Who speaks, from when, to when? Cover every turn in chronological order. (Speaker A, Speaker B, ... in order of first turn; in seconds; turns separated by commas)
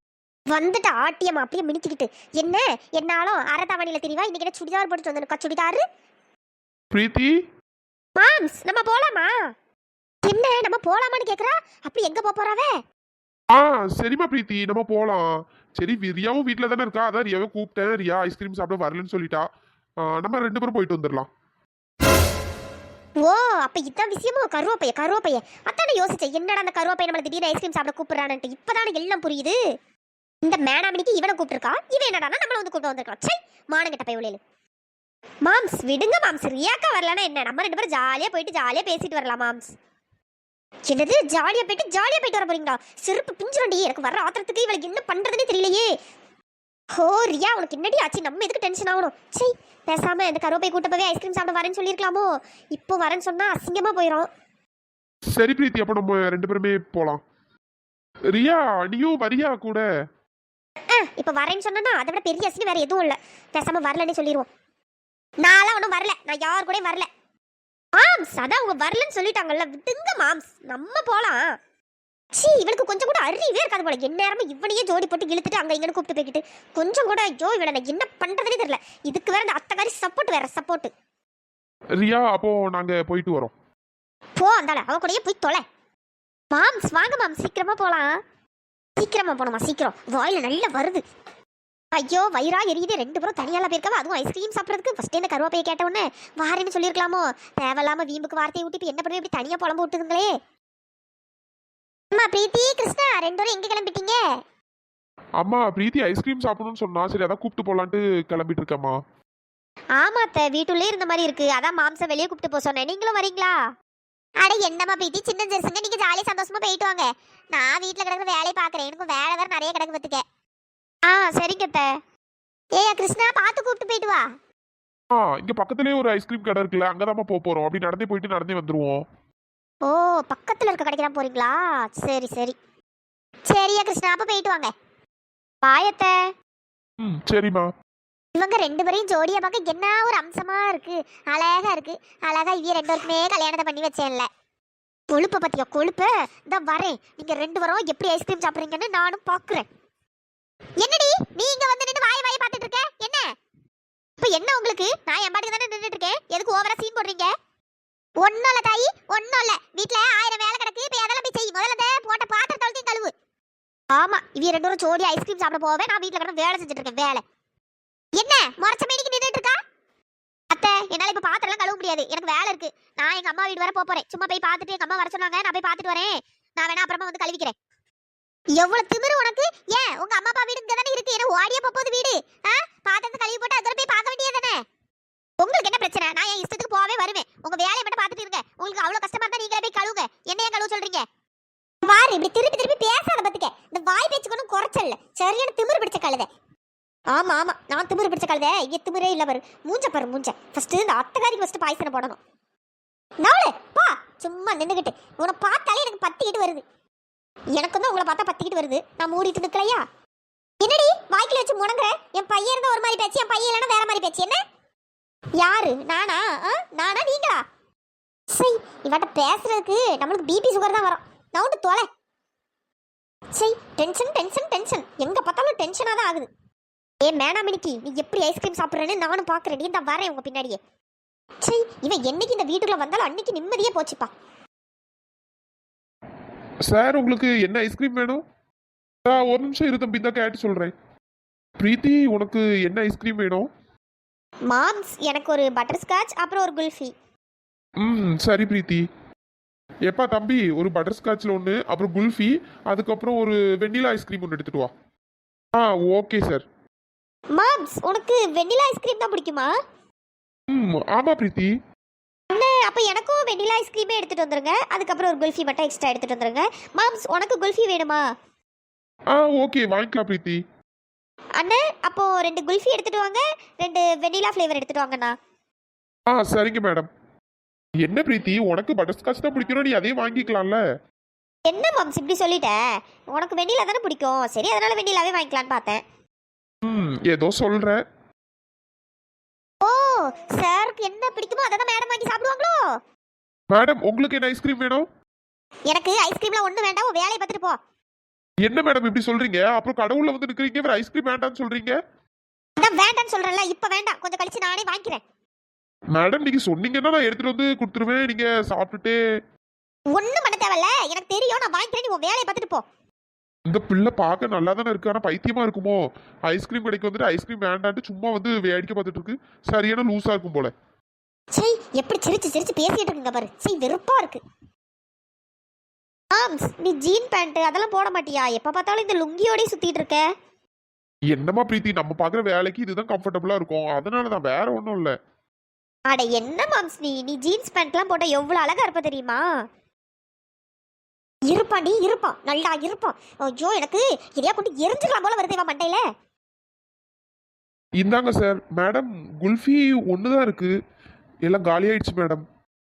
Speaker A: 0.5-5.8, Speaker B: 6.9-7.3, Speaker A: 8.2-9.5, Speaker A: 10.2-12.7, Speaker B: 13.5-19.4, Speaker B: 20.0-21.3, Speaker A: 23.2-29.6, Speaker A: 30.4-34.4, Speaker A: 35.4-39.7, Speaker A: 40.9-45.9, Speaker A: 46.9-54.3, Speaker B: 55.3-57.2, Speaker B: 58.3-59.8, Speaker A: 60.9-64.5, Speaker A: 65.4-67.1, Speaker A: 67.9-71.5, Speaker A: 72.3-80.9, Speaker B: 82.0-83.5, Speaker A: 84.4-85.6, Speaker A: 86.5-88.2, Speaker A: 89.0-91.0, Speaker A: 91.9-100.3, Speaker A: 102.1-104.2, Speaker B: 105.4-109.0, Speaker A: 110.0-113.7, Speaker A: 114.4-120.2, Speaker A: 121.0-122.0, Speaker A: 122.8-124.3, Speaker B: 125.1-129.0, Speaker A: 129.8-132.6, Speaker A: 133.5-134.7, Speaker A: 135.6-136.3, Speaker B: 137.0-137.7, Speaker A: 138.3-144.3, Speaker A: 145.1-149.7, Speaker A: 150.8-153.3, Speaker A: 154.2-157.3, Speaker A: 158.2-163.1, Speaker A: 163.9-167.2, Speaker A: 168.2-169.6, Speaker A: 170.5-177.5, Speaker A: 178.5-184.6, Speaker A: 185.4-191.0, Speaker A: 191.8-196.3, Speaker A: 197.1-202.2, Speaker A: 203.2-206.6, Speaker A: 207.5-209.8, Speaker A: 210.6-214.4, Speaker A: 215.4-217.4, Speaker A: 218.3-221.8, Speaker A: 223.3-226.3, Speaker A: 227.0-230.6, Speaker A: 231.4-234.1, Speaker B: 236.7-238.2, Speaker B: 239.0-240.7, Speaker B: 241.6-243.5, Speaker A: 244.5-246.9, Speaker B: 247.8-248.8, Speaker B: 249.9-254.7, Speaker B: 255.5-256.4, Speaker A: 257.3-259.5, Speaker B: 260.5-261.5, Speaker A: 262.3-268.1, Speaker B: 269.1-270.4, Speaker A: 271.4-275.1, Speaker B: 276.1-276.9, Speaker B: 277.8-280.6, Speaker A: 281.4-285.8, Speaker B: 286.6-287.8, Speaker A: 289.6-292.8, Speaker B: 293.5-294.9, Speaker A: 295.7-297.6, Speaker B: 298.4-301.8, Speaker A: 302.6-305.0, Speaker B: 305.9-309.0, Speaker A: 309.9-312.6, Speaker B: 313.4-320.5, Speaker A: 321.3-324.2, Speaker A: 326.1-330.0, Speaker B: 331.1-334.9, Speaker A: 335.9-339.3, Speaker A: 341.3-345.8, Speaker B: 347.8-350.5, Speaker B: 351.2-352.2